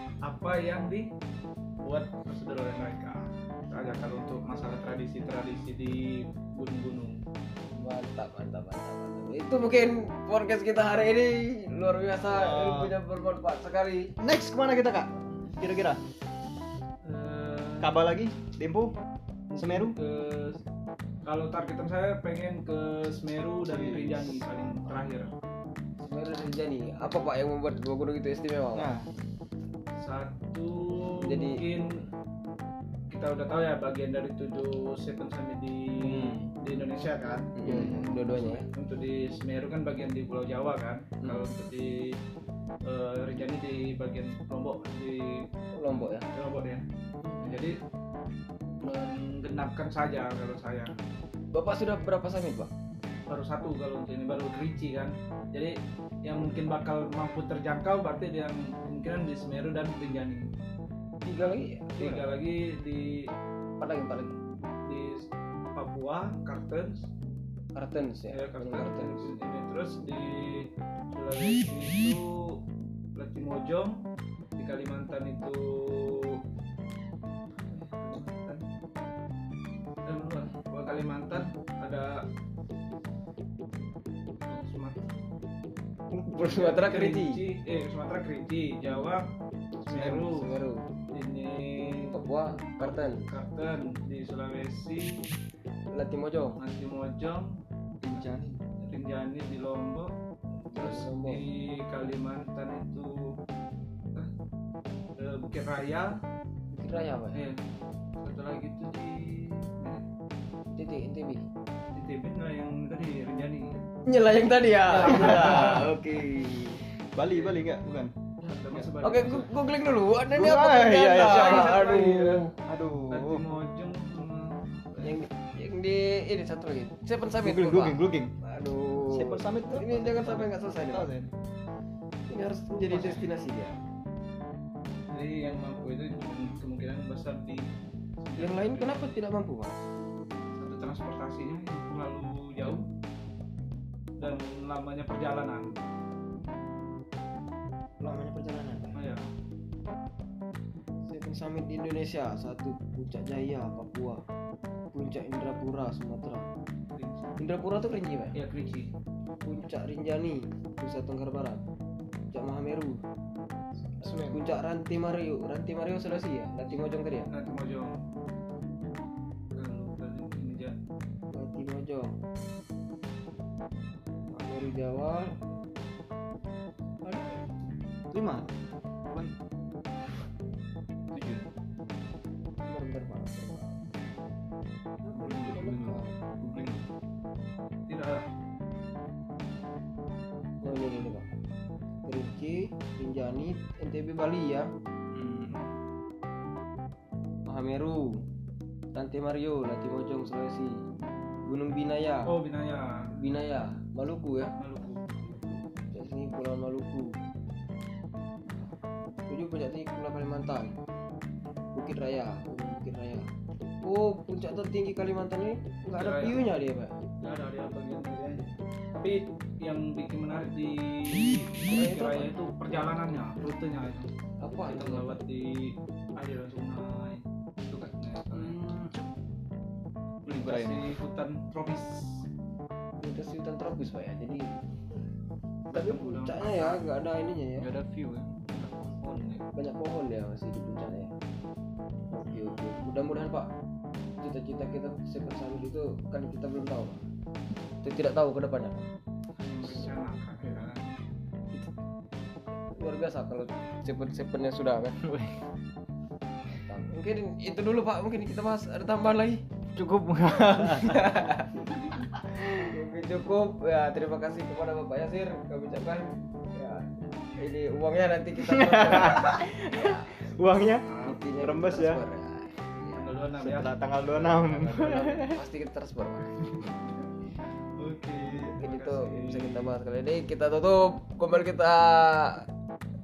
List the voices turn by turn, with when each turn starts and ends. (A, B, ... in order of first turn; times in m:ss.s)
0:00.2-0:01.1 A
0:01.8-0:07.2 A
0:07.7-0:14.1 B
0:12.3-0:12.9 C
0:14.2-0:16.0 C
0:17.0-0:18.0 A
0:17.8-0:18.9 C
0:19.5-0:20.6 A
0:19.6-0:19.9 C
0:21.2-0:25.3 A
0:23.7-0:25.0 C
0:26.0-0:28.9 B
0:28.7-0:29.1 C
0:30.0-0:31.9 A
0:31.2-0:31.6 B
0:33.1-0:42.2 A
0:36.0-0:36.4 C
0:37.5-0:38.6 B
0:37.6-0:38.5 C
0:42.8-0:46.8 A
0:45.8-0:46.2 B
0:47.2-0:47.7 C
0:47.4-0:47.8 A
0:48.8-0:50.9 A
0:51.5-0:52.7 B
0:53.3-1:00.5 A
1:01.2-1:02.2 B
1:01.4-1:03.3 A
1:03.8-1:04.4 B
1:04.8-1:07.1 A
1:07.7-1:09.4 B
1:08.3-1:12.6 A
1:13.2-1:14.0 A
1:14.6-1:16.4 A
1:17.7-1:18.6 A
1:20.0-1:22.2 A
1:24.4-1:25.2 A
1:26.1-1:27.4 B
1:26.4-1:29.2 A
1:29.8-1:30.6 A
1:29.9-1:30.3 C
1:30.3-1:30.8 B
1:31.1-1:32.1 A
1:32.1-1:33.3 B
1:32.8-1:35.2 A
1:35.9-1:36.6 B
1:36.6-1:37.6 A
1:38.0-1:38.6 C
1:38.8-1:40.1 A
1:40.7-1:43.4 A
1:40.7-1:41.4 B
1:45.2-1:46.2 A
1:46.7-1:47.4 B
1:47.3-1:47.6 A
1:48.2-1:50.0 A
1:50.7-1:51.4 B
1:51.9-1:53.8 A
1:54.0-1:56.8 B
1:54.9-1:55.9 A
1:57.1-1:58.1 C
1:57.3-1:57.6 A
1:58.4-1:59.5 A
1:58.7-1:59.3 C
1:59.0-2:02.5 B
2:00.3-2:01.9 C
2:01.1-2:02.5 A
2:02.5-2:03.4 C
2:03.1-2:05.2 A
2:05.0-2:11.1 B
2:07.4-2:08.3 C
2:09.1-2:11.3 C
2:12.3-2:13.8 B
2:12.8-2:13.2 A
2:15.1-2:17.7 A
2:18.2-2:19.2 A
2:18.4-2:19.8 B
2:20.6-2:22.9 A
2:24.2-2:25.8 A
2:28.0-2:28.9 B
2:28.9-2:29.2 A
2:31.1-2:34.2 B
2:34.9-2:36.4 B
2:36.9-2:37.3 A
2:37.4-2:38.4 B
2:38.3-2:38.9 A
2:39.4-2:41.6 B
2:42.3-2:43.0 B
2:44.0-2:44.4 C
2:44.0-2:47.3 B
2:47.3-2:48.0 A
2:49.5-2:50.8 A
2:51.3-2:52.1 B
2:54.3-2:55.3 B
2:57.0-2:57.4 B
2:58.1-2:58.5 C
2:59.1-2:59.3 C
3:01.1-3:01.5 A
3:02.6-3:03.8 B
3:05.0-3:06.2 B
3:05.2-3:06.0 A
3:05.6-3:06.8 C
3:07.9-3:08.2 A
3:10.6-3:11.2 B
3:12.0-3:14.7 B
3:15.1-3:15.7 A
3:17.5-3:18.2 B
3:18.9-3:20.8 B
3:21.4-3:22.4 B
3:22.3-3:23.1 A
3:23.2-3:24.5 B
3:24.6-3:25.6 A
3:25.9-3:27.2 B
3:29.3-3:30.8 B
3:31.7-3:33.3 B
3:33.8-3:37.0 B
3:35.9-3:36.5 A
3:37.2-3:44.1 A
3:41.6-3:43.0 B
3:44.4-3:45.2 B
3:44.7-3:48.6 A
3:48.6-3:49.1 C
3:50.2-3:50.9 C
3:50.2-3:52.2 A
3:53.0-3:54.5 B
3:55.7-3:57.7 B
3:55.7-3:56.8 A
3:57.6-3:59.2 C
3:58.5-3:59.4 A
3:59.5-4:01.1 B
4:02.1-4:03.5 B
4:04.2-4:07.0 B
4:07.8-4:08.8 B
4:09.4-4:10.9 A
4:12.7-4:15.0 B
4:15.0-4:15.4 C
4:16.6-4:19.4 B
4:19.7-4:22.7 C
4:20.6-4:21.7 B
4:22.6-4:30.1 B
4:28.4-4:32.0 C
4:30.9-4:31.2 A
4:31.0-4:33.1 B
4:33.0-4:34.7 A
4:33.4-4:35.4 C
4:34.6-4:36.3 B
4:37.8-4:39.8 A
4:38.6-4:42.5 B